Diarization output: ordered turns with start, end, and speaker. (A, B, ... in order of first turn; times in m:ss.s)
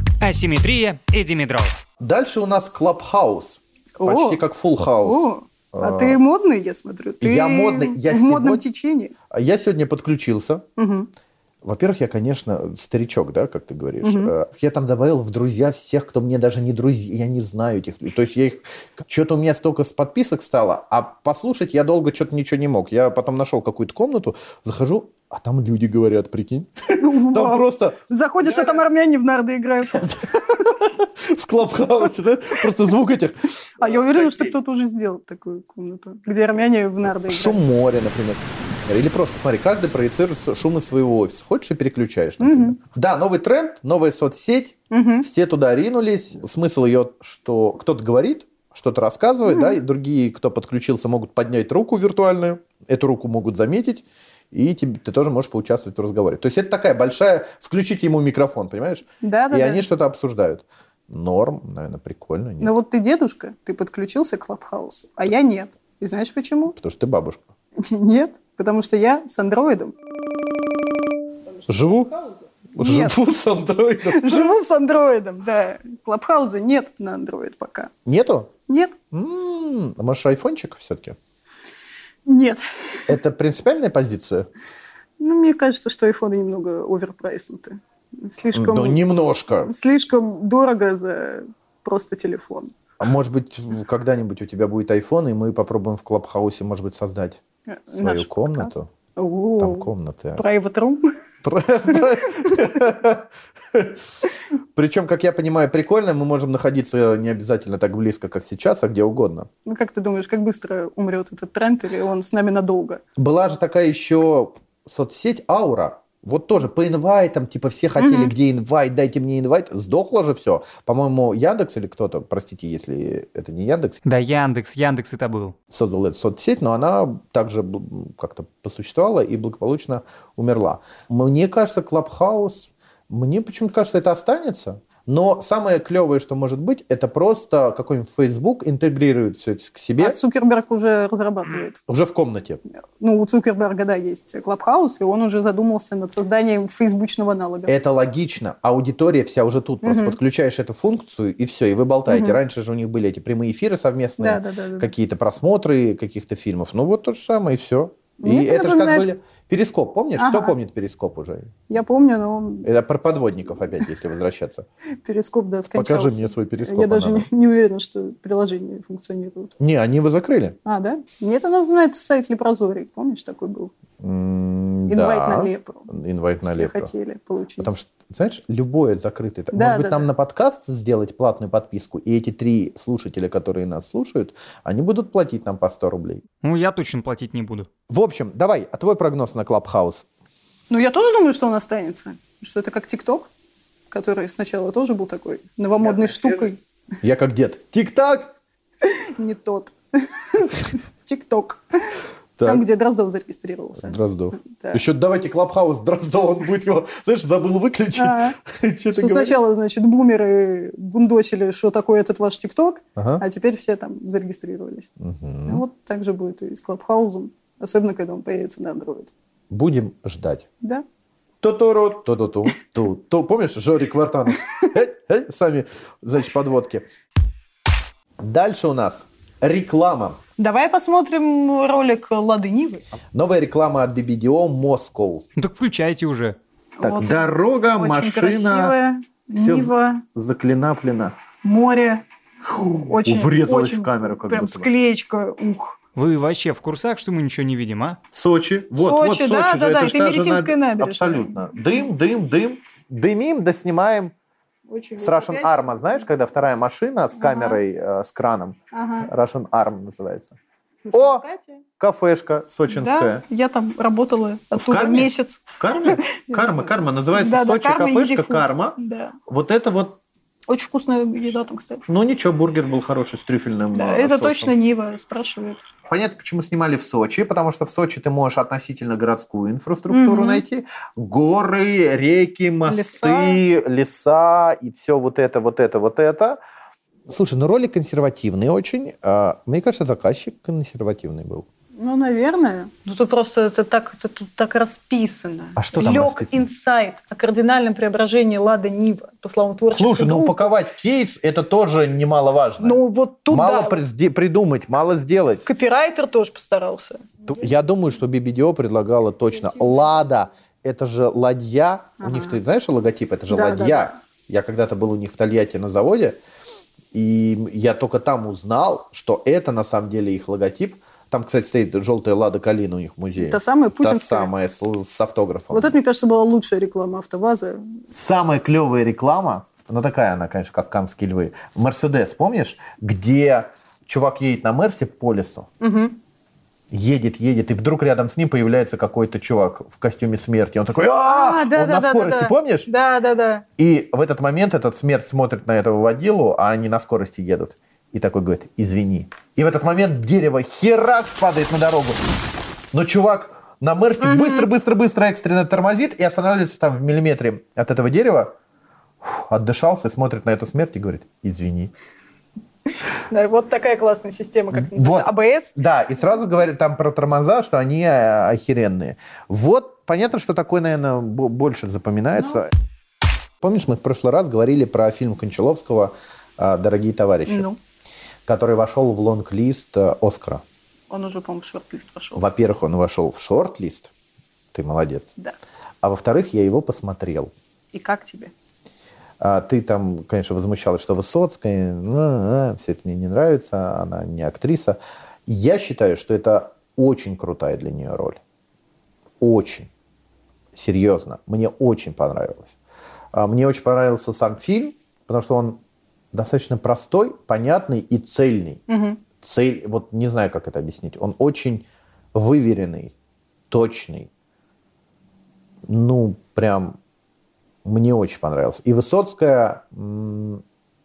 0:00.2-0:01.8 A
0:02.0-0:06.2 B
0:04.0-0:09.1 C
0:07.2-0:08.6 B
0:09.3-0:10.7 B
0:10.8-0:11.1 C
0:11.6-0:28.8 B
0:14.0-0:14.3 C
0:27.0-0:30.7 C
0:29.9-0:34.5 B
0:33.8-0:37.6 C
0:37.2-1:02.7 B
0:42.4-0:42.8 C
0:44.9-0:45.2 C
0:49.4-0:49.8 C
0:59.2-0:59.8 C
1:02.6-1:06.7 C
1:06.7-1:07.5 B
1:07.8-1:09.9 C
1:11.6-1:13.2 C
1:11.7-1:12.1 B
1:12.7-1:14.6 B
1:14.0-1:17.9 C
1:18.0-1:18.5 B
1:18.7-1:19.0 C
1:19.1-1:21.2 B
1:22.2-1:22.6 C
1:23.1-1:24.5 B
1:25.2-1:32.7 C
1:28.5-1:29.7 B
1:33.0-1:37.4 B
1:37.7-1:41.1 C
1:37.9-1:38.9 B
1:39.6-1:40.5 B
1:41.4-1:44.0 B
1:41.9-1:42.7 C
1:44.7-1:49.5 B
1:49.7-1:53.0 C
1:53.2-2:04.0 B
1:58.0-1:58.3 C
2:04.0-2:05.5 A
2:05.7-2:20.2 B
2:20.0-2:21.8 C
2:21.9-2:22.6 B
2:23.0-2:27.7 C
2:27.7-2:41.5 B
2:29.8-2:30.2 C
2:32.1-2:32.4 C
2:34.2-2:34.9 C
2:38.2-2:39.0 C
2:40.2-2:40.5 C
2:41.7-2:42.7 C
2:42.6-2:44.7 B
2:45.0-2:49.5 C
2:45.7-2:47.3 B
2:49.6-2:50.6 B
2:50.6-2:53.7 C
2:54.0-2:56.9 B
2:54.9-2:57.7 C
2:57.6-3:06.2 B
2:59.5-3:00.1 C
3:06.4-3:07.7 A
3:07.9-3:10.0 B
3:10.7-3:13.3 C
3:13.9-3:16.6 C
3:17.0-3:18.3 B
3:18.8-3:24.8 C
3:22.4-3:22.6 B
3:23.8-3:29.4 B
3:28.0-3:28.4 C
3:28.9-3:34.9 C
3:33.0-3:33.2 B
3:35.0-3:35.6 B
3:35.5-3:39.1 C
3:39.5-3:40.5 B
3:41.4-3:46.9 B
3:48.2-3:50.2 B
3:50.4-3:52.9 C
3:53.1-3:55.2 B
3:55.4-3:56.4 A
3:56.8-4:00.0 C
3:56.8-3:58.8 B
3:59.3-4:01.2 B
4:01.4-4:02.0 C
4:02.6-4:04.7 B
4:02.6-4:05.8 C
4:05.9-4:08.0 A
4:08.1-4:14.1 B
4:08.8-4:11.4 C
4:14.7-4:15.7 C
4:15.0-4:20.4 B
4:17.2-4:17.6 C
4:18.7-4:19.1 C
4:20.9-4:21.6 C
4:20.9-4:21.2 B
4:21.8-4:23.2 B
4:22.7-4:29.2 C
4:24.5-4:30.0 B
4:30.5-4:31.8 C
4:31.9-4:34.5 B
4:33.8-4:35.6 C
4:35.9-4:46.4 B
4:39.9-4:40.4 C
4:42.6-4:43.4 C
4:47.1-4:51.4 B
4:51.8-5:00.5 C
4:55.6-4:56.4 B
4:59.7-5:05.4 B
5:02.6-5:03.8 C
5:05.4-5:07.3 C
5:07.3-5:16.2 B
5:12.0-5:12.4 C
5:13.3-5:14.0 C
5:16.9-5:25.8 B
5:23.2-5:24.3 C
5:25.5-5:27.7 C
5:27.9-5:35.5 B
5:35.6-5:36.0 C
5:36.7-5:42.7 B
5:41.0-5:43.4 C
5:43.6-5:52.0 B
5:52.7-5:58.3 B
5:54.0-5:54.5 C
5:59.0-6:01.7 B
6:03.0-6:05.6 C
6:04.5-6:12.5 B
6:13.4-6:17.5 B
6:17.3-6:17.6 C
6:18.2-6:20.4 B
6:20.9-6:22.2 C
6:22.2-6:23.9 B
6:24.5-6:25.1 B
6:25.8-6:27.3 B
6:27.7-6:28.3 C
6:29.2-6:38.2 B
6:39.2-6:39.7 B
6:40.5-6:42.5 B
6:43.1-6:45.6 B
6:46.1-6:48.6 B
6:48.7-6:49.0 C
6:49.2-6:52.9 B
6:53.5-6:54.1 B
6:55.6-6:56.8 B
6:57.6-7:00.4 B